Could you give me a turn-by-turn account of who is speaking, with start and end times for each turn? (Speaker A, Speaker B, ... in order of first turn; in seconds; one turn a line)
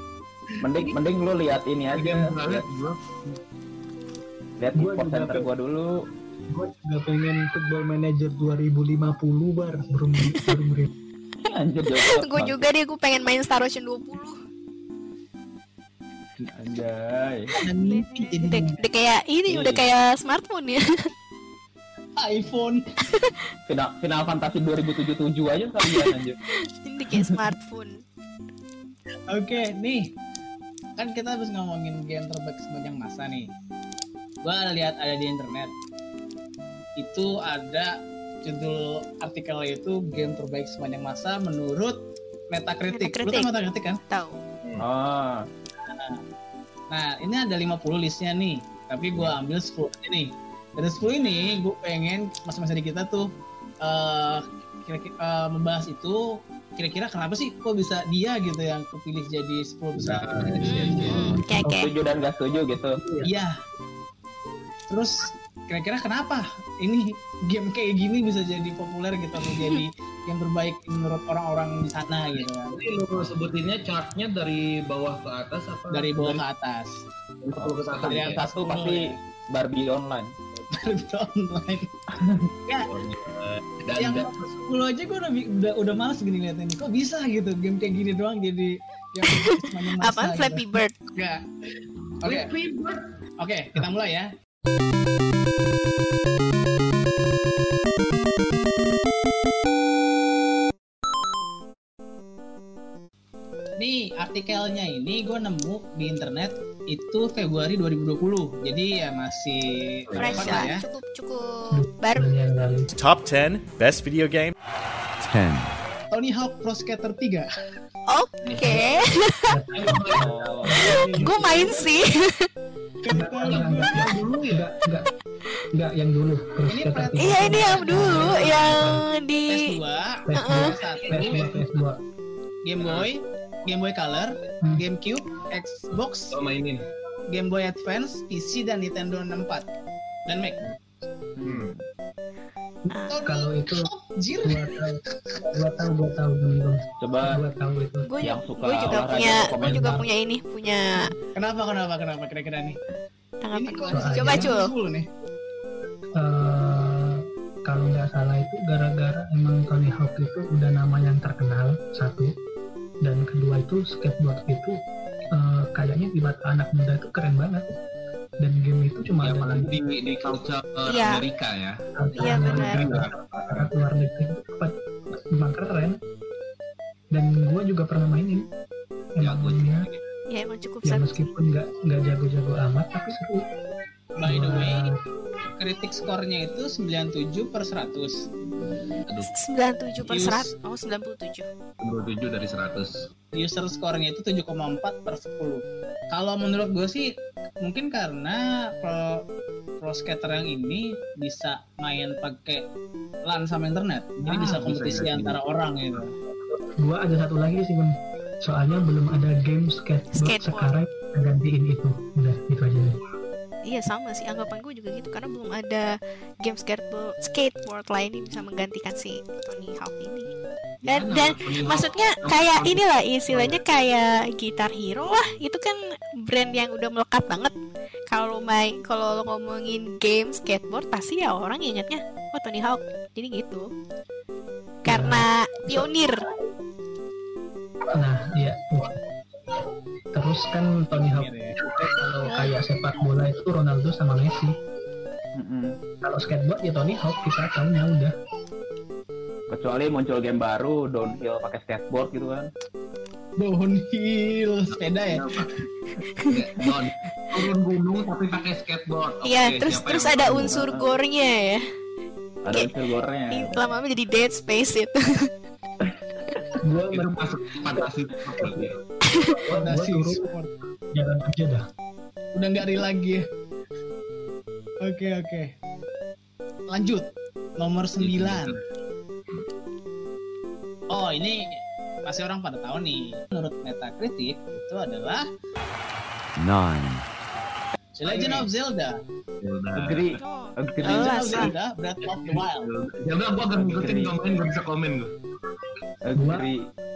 Speaker A: 0.6-2.6
Speaker B: 1.9-3.1
Speaker A: 4.6-5.9
Speaker C: 4.8-5.5
Speaker C: 6.5-10.9
Speaker D: 11.4-14.4
Speaker A: 11.5-12.7
Speaker A: 16.4-17.6
Speaker E: 17.6-18.8
Speaker D: 17.8-20.8
Speaker A: 19.5-19.9
Speaker E: 22.2-22.8
Speaker A: 23.7-26.4
Speaker D: 25.8-26.1
Speaker D: 26.8-27.9
Speaker A: 27.1-27.4
Speaker E: 29.3-30.0
Speaker E: 31.0-33.5
Speaker E: 34.4-35.7
Speaker E: 37.0-37.9
Speaker E: 38.4-42.0
Speaker E: 42.5-44.0
Speaker D: 42.9-43.5
Speaker D: 44.1-44.4
Speaker A: 44.8-45.5
Speaker E: 45.8-46.2
Speaker E: 46.9-53.3
Speaker D: 51.2-51.6
Speaker E: 53.8-56.2
Speaker E: 56.8-61.2
Speaker B: 60.0-61.4
Speaker D: 60.6-61.9
Speaker A: 61.6-63.0
Speaker E: 63.2-63.5
Speaker E: 64.9-72.7
Speaker D: 69.4-69.8
Speaker B: 72.3-76.4
Speaker E: 75.9-77.0
Speaker B: 77.4-78.4
Speaker A: 77.6-80.3
Speaker E: 78.1-79.2
Speaker E: 80.7-81.9
Speaker A: 82.2-82.5
Speaker B: 82.8-84.3
Speaker E: 84.0-92.5
Speaker D: 89.3-91.0
Speaker B: 92.2-93.0
Speaker E: 93.4-94.3
Speaker E: 103.8-110.8
Speaker B: 110.1-110.7
Speaker D: 110.2-112.3
Speaker C: 111.7-112.9
Speaker F: 112.9-114.5
Speaker F: 115.2-115.7
Speaker E: 116.1-117.5
Speaker D: 118.1-119.5
Speaker B: 118.5-118.8
Speaker C: 119.5-121.7
Speaker B: 119.8-120.8
Speaker A: 120.1-121.3
Speaker D: 121.1-122.5
Speaker E: 123.0-124.1
Speaker C: 123.1-125.1
Speaker B: 123.4-124.7
Speaker C: 125.7-129.1
Speaker E: 126.7-128.5
Speaker D: 127.2-129.7
Speaker E: 129.5-131.5
Speaker C: 130.3-132.0
Speaker D: 130.4-130.7
Speaker B: 131.1-131.7
Speaker E: 132.7-136.3
Speaker B: 132.8-133.1
Speaker B: 136.3-136.8
Speaker E: 137.3-139.7
Speaker E: 140.3-140.6
Speaker A: 141.4-141.8
Speaker B: 141.4-141.7
Speaker D: 142.9-143.2
Speaker E: 143.1-145.5
Speaker C: 143.2-143.9
Speaker C: 144.4-148.1
Speaker A: 147.0-147.4
Speaker D: 148.1-151.1
Speaker A: 148.2-150.1
Speaker E: 151.3-152.8
Speaker D: 153.4-154.7
Speaker E: 153.6-155.1
Speaker C: 153.9-154.5
Speaker C: 156.2-162.3
Speaker C: 163.0-164.8
Speaker C: 165.3-167.7
Speaker C: 168.4-169.8
Speaker B: 169.2-173.7
Speaker D: 170.9-171.2
Speaker C: 172.0-176.0
Speaker D: 172.2-172.8
Speaker C: 177.1-178.5
Speaker C: 179.2-179.9
Speaker B: 179.2-180.0
Speaker D: 180.3-181.3
Speaker C: 180.8-183.5
Speaker E: 184.2-184.9
Speaker C: 184.3-185.0
Speaker E: 185.6-188.2
Speaker D: 189.3-191.5
Speaker E: 190.1-190.5
Speaker B: 191.8-193.0
Speaker E: 193.3-197.1
Speaker E: 197.6-199.2
Speaker E: 199.8-202.6
Speaker E: 203.3-206.2
Speaker B: 204.2-205.4
Speaker C: 206.4-213.0
Speaker D: 210.1-210.7
Speaker D: 213.7-215.9
Speaker D: 216.4-220.3
Speaker B: 220.8-223.6
Speaker D: 220.9-227.5
Speaker D: 228.1-233.7
Speaker C: 234.9-235.9
Speaker D: 234.9-236.2
Speaker C: 237.9-239.0
Speaker C: 240.1-244.5
Speaker E: 240.9-241.6
Speaker A: 245.3-245.8
Speaker C: 246.0-248.1
Speaker A: 249.5-252.5
Speaker E: 253.4-255.3
Speaker B: 255.0-255.6
Speaker B: 256.3-260.5
Speaker D: 259.2-261.6
Speaker A: 260.4-261.0
Speaker A: 262.4-263.7
Speaker D: 263.3-265.3
Speaker C: 266.6-268.7
Speaker B: 266.9-268.8
Speaker D: 269.1-269.4
Speaker C: 269.3-270.2
Speaker E: 269.5-270.5
Speaker C: 270.9-271.7
Speaker E: 272.4-273.2
Speaker E: 274.8-275.5
Speaker E: 276.7-277.1
Speaker E: 277.6-278.6
Speaker B: 278.0-278.6
Speaker E: 280.9-285.3
Speaker F: 286.4-287.0
Speaker E: 287.9-288.9
Speaker B: 288.1-288.5
Speaker B: 289.4-290.2
Speaker A: 289.7-291.5
Speaker D: 290.2-291.5
Speaker E: 290.8-292.7
Speaker B: 292.1-295.1
Speaker A: 293.6-294.2
Speaker A: 296.1-296.7
Speaker C: 296.2-296.5